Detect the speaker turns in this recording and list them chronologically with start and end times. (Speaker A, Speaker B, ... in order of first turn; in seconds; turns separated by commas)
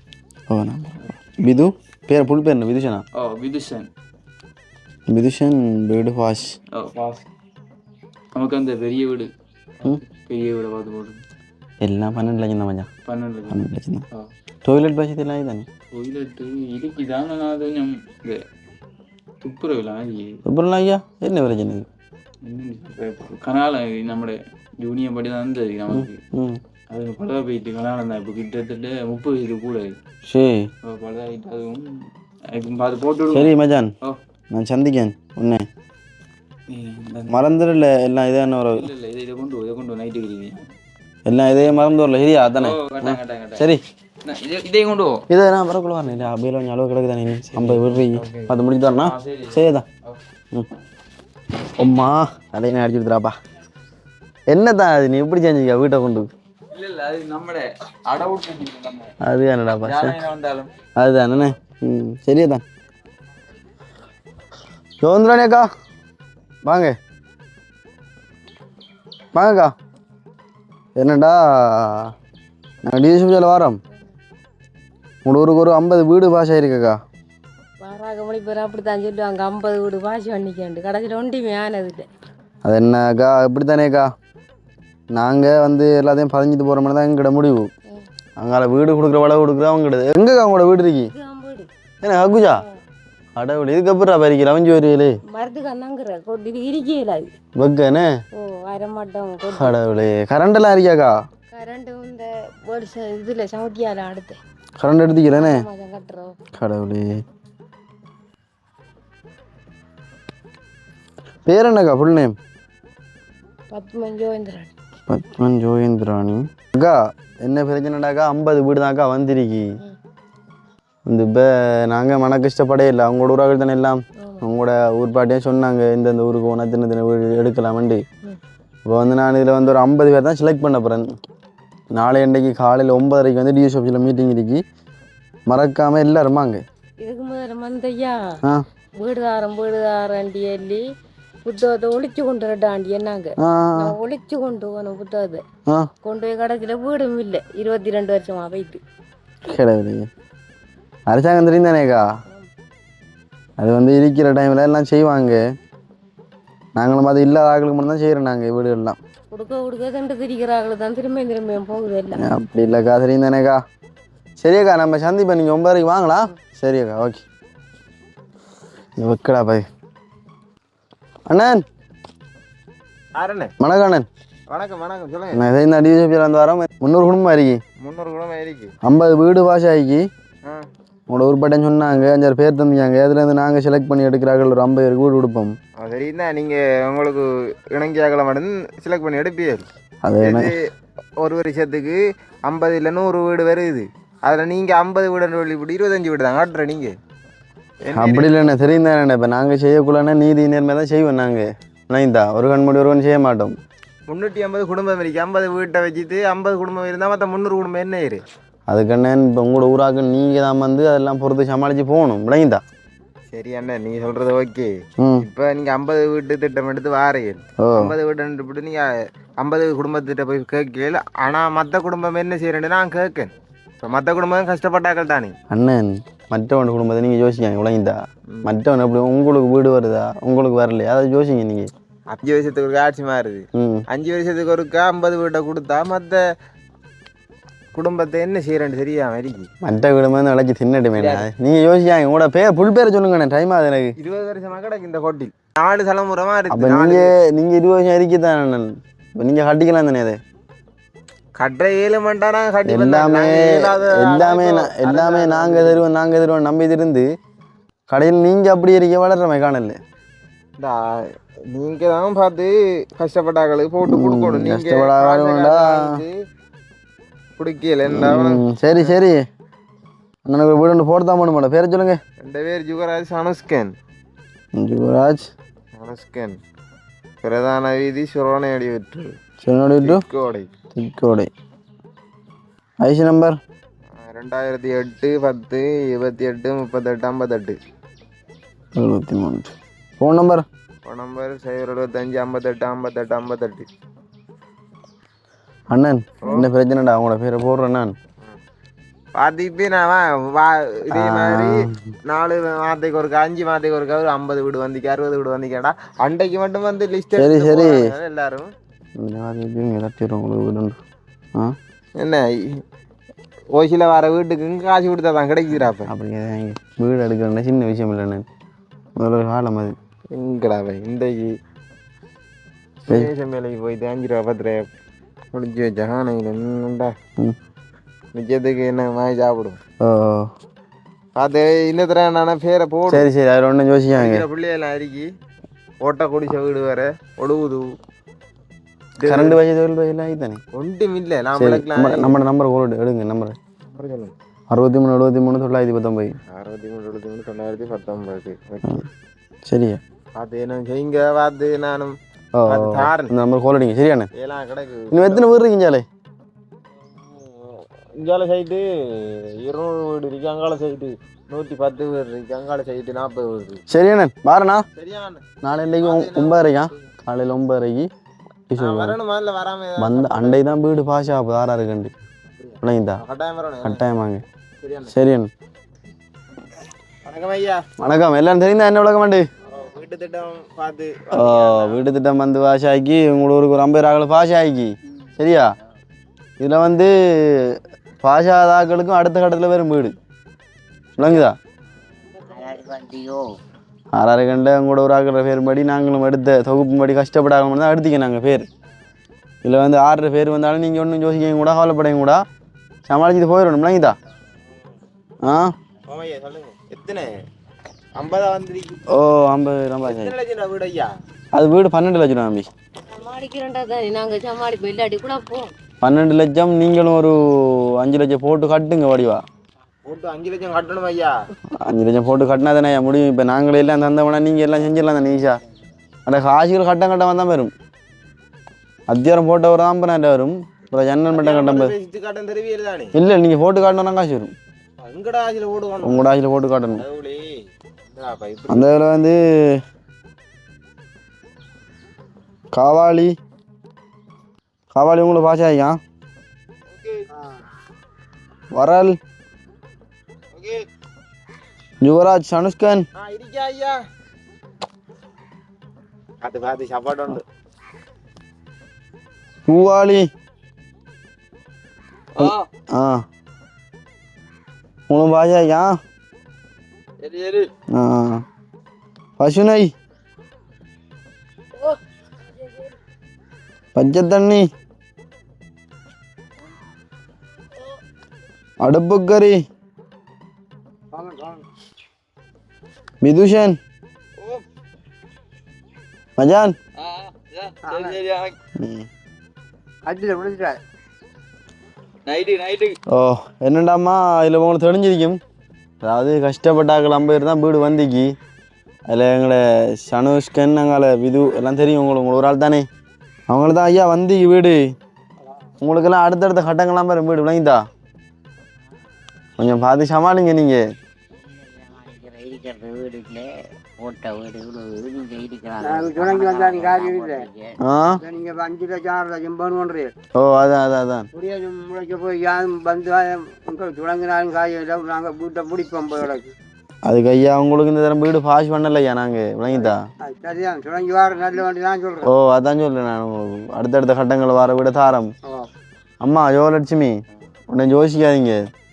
Speaker A: 0.5-3.0, Speaker B: 3.1-3.9, Speaker A: 5.1-6.5, Speaker B: 6.7-7.2, Speaker B: 8.3-11.2, Speaker A: 11.8-12.9, Speaker B: 13.1-14.3, Speaker A: 13.5-14.0, Speaker A: 14.6-15.7, Speaker B: 15.9-18.4, Speaker B: 19.4-20.4, Speaker A: 20.4-21.9, Speaker B: 22.4-26.2, Speaker A: 25.9-26.6, Speaker B: 26.9-30.0, Speaker A: 30.2-30.7, Speaker B: 30.8-34.2, Speaker A: 33.3-33.9, Speaker A: 34.5-35.7, Speaker B: 36.7-37.4, Speaker A: 37.3-38.9, Speaker B: 38.7-40.7, Speaker A: 41.2-43.8, Speaker B: 42.5-43.7, Speaker B: 44.2-45.2, Speaker A: 45.3-49.8, Speaker B: 47.5-50.2, Speaker A: 51.8-53.3, Speaker A: 54.5-56.3, Speaker B: 56.7-59.1, Speaker A: 59.2-60.2, Speaker B: 59.8-60.7, Speaker A: 61.0-62.6, Speaker A: 65.0-65.7, Speaker A: 66.6-67.0, Speaker A: 69.3-69.7, Speaker A: 71.0-72.1, Speaker A: 72.8-73.8, Speaker A: 75.2-77.0, Speaker C: 77.8-82.1, Speaker A: 82.6-84.1, Speaker A: 85.1-87.7, Speaker A: 88.4-91.1, Speaker C: 91.1-91.7, Speaker A: 92.0-92.6, Speaker A: 93.3-95.2, Speaker C: 95.3-97.3, Speaker A: 97.5-98.1, Speaker C: 98.4-99.7, Speaker A: 99.5-101.1, Speaker C: 101.5-104.4, Speaker A: 104.8-105.6, Speaker C: 105.4-106.3, Speaker A: 106.5-107.2, Speaker A: 111.5-112.3, Speaker C: 113.7-114.7, Speaker A: 115.1-119.7, Speaker A: 121.1-128.0, Speaker C: 124.2-124.5, Speaker A: 128.9-131.1, Speaker A: 131.9-134.6, Speaker A: 135.5-136.6, Speaker C: 137.0-138.3, Speaker C: 139.0-140.8, Speaker C: 141.4-145.4, Speaker A: 143.4-143.9, Speaker C: 146.0-148.8, Speaker A: 149.5-150.1, Speaker A: 151.1-152.0, Speaker A: 153.6-155.4, Speaker A: 156.8-159.0, Speaker C: 159.3-162.2, Speaker A: 162.2-163.6, Speaker A: 164.4-167.2, Speaker A: 169.0-169.6, Speaker A: 171.3-171.6, Speaker D: 173.1-173.5, Speaker A: 173.6-174.1, Speaker D: 174.5-175.4, Speaker A: 175.3-177.6, Speaker D: 177.8-178.7, Speaker A: 178.8-180.1, Speaker A: 181.1-185.6, Speaker D: 185.8-189.7, Speaker A: 190.0-190.5, Speaker D: 190.2-190.7, Speaker D: 191.2-196.9, Speaker D: 197.8-198.3, Speaker A: 197.9-203.6, Speaker D: 204.1-208.2, Speaker A: 208.7-212.6, Speaker D: 213.3-218.9, Speaker A: 215.0-215.3, Speaker A: 217.6-217.9, Speaker D: 219.4-225.3, Speaker A: 225.5-231.7, Speaker D: 232.1-236.2, Speaker A: 233.5-233.8, Speaker D: 237.7-239.5, Speaker A: 239.6-243.9, Speaker D: 240.9-241.2, Speaker D: 244.0-247.1, Speaker A: 246.5-250.2, Speaker D: 251.4-255.8, Speaker A: 252.7-257.1, Speaker A: 257.9-259.8, Speaker D: 260.6-266.1, Speaker A: 263.9-265.8, Speaker D: 267.4-268.9, Speaker A: 267.9-269.2, Speaker A: 270.3-272.0, Speaker D: 272.2-273.7, Speaker A: 274.6-275.3, Speaker D: 275.7-276.4, Speaker D: 277.2-279.1, Speaker A: 279.4-280.0, Speaker D: 279.8-280.5, Speaker A: 280.7-281.3, Speaker A: 282.8-283.4, Speaker D: 283.9-287.6, Speaker A: 288.8-290.4, Speaker D: 290.8-293.7, Speaker A: 295.7-297.9, Speaker D: 296.2-296.5, Speaker D: 299.1-308.5, Speaker A: 300.9-301.8, Speaker A: 307.2-307.8, Speaker A: 309.0-310.8, Speaker D: 312.0-312.6, Speaker D: 313.5-315.9, Speaker A: 315.9-318.2, Speaker A: 319.0-319.7, Speaker D: 320.1-321.3, Speaker D: 322.8-324.7, Speaker D: 325.3-326.9, Speaker D: 328.1-329.6, Speaker A: 329.8-330.3, Speaker D: 331.1-333.1, Speaker A: 332.9-334.2, Speaker D: 333.9-335.1, Speaker D: 335.8-337.6, Speaker D: 339.0-339.4, Speaker A: 339.0-340.4, Speaker D: 340.5-342.1, Speaker A: 341.4-343.4, Speaker D: 343.6-344.1, Speaker A: 344.5-346.1, Speaker D: 346.3-348.8, Speaker A: 349.4-349.8, Speaker D: 350.1-351.9, Speaker A: 352.4-354.1, Speaker D: 352.5-353.1, Speaker D: 354.1-355.3, Speaker A: 354.9-355.9, Speaker D: 356.8-363.6, Speaker A: 363.7-364.6, Speaker D: 364.7-365.2, Speaker A: 365.4-367.9, Speaker D: 365.8-366.7, Speaker A: 368.5-369.0, Speaker D: 368.6-370.5, Speaker A: 369.8-371.9, Speaker D: 372.3-373.8, Speaker A: 372.6-373.0, Speaker A: 373.6-374.2, Speaker D: 374.6-374.9, Speaker A: 374.9-375.3, Speaker D: 377.0-377.6, Speaker A: 377.8-379.3, Speaker D: 379.4-381.8, Speaker A: 381.1-385.5, Speaker A: 386.4-389.9, Speaker A: 391.0-391.4, Speaker E: 392.0-393.3, Speaker C: 392.1-392.6, Speaker A: 393.9-398.4, Speaker A: 399.4-402.2, Speaker A: 402.9-403.9, Speaker D: 404.5-404.7, Speaker A: 405.2-405.5, Speaker D: 405.9-407.1, Speaker D: 407.9-408.8, Speaker A: 408.9-410.1, Speaker D: 409.8-410.9, Speaker A: 411.3-412.5, Speaker C: 412.9-415.5, Speaker A: 415.8-419.2, Speaker D: 419.8-421.1, Speaker A: 421.5-425.4, Speaker A: 426.1-427.5, Speaker A: 428.9-431.7, Speaker D: 431.1-432.9, Speaker A: 432.9-434.3, Speaker D: 434.8-436.1, Speaker A: 435.8-436.8, Speaker D: 436.7-438.7, Speaker A: 438.5-439.6, Speaker A: 442.5-443.1, Speaker A: 444.7-445.8, Speaker D: 446.7-447.0, Speaker F: 447.1-447.4, Speaker A: 448.5-449.0, Speaker D: 450.3-450.7, Speaker A: 451.8-452.8, Speaker D: 452.9-453.8, Speaker D: 456.2-457.2, Speaker A: 459.5-460.1, Speaker B: 462.1-462.4, Speaker A: 462.1-463.0, Speaker A: 464.9-465.8, Speaker B: 467.0-467.5, Speaker A: 467.7-468.2, Speaker A: 469.2-469.7, Speaker C: 472.4-472.7, Speaker A: 473.7-474.5, Speaker A: 478.6-479.4, Speaker F: 480.9-481.4, Speaker A: 483.0-483.6, Speaker A: 486.2-486.6, Speaker B: 486.8-488.4, Speaker F: 487.6-488.0, Speaker A: 488.6-488.9, Speaker F: 489.9-490.6, Speaker B: 492.1-492.8, Speaker A: 492.9-495.2, Speaker A: 495.8-498.1, Speaker A: 498.9-502.6, Speaker A: 503.3-504.7, Speaker A: 505.6-507.6, Speaker A: 509.4-510.6, Speaker E: 511.1-517.6, Speaker F: 515.6-517.2, Speaker A: 517.6-518.0, Speaker F: 518.0-519.9, Speaker A: 520.1-521.1, Speaker F: 521.1-526.3, Speaker A: 526.9-529.8, Speaker F: 529.5-532.1, Speaker A: 532.0-535.1, Speaker A: 536.0-537.0, Speaker A: 537.5-538.5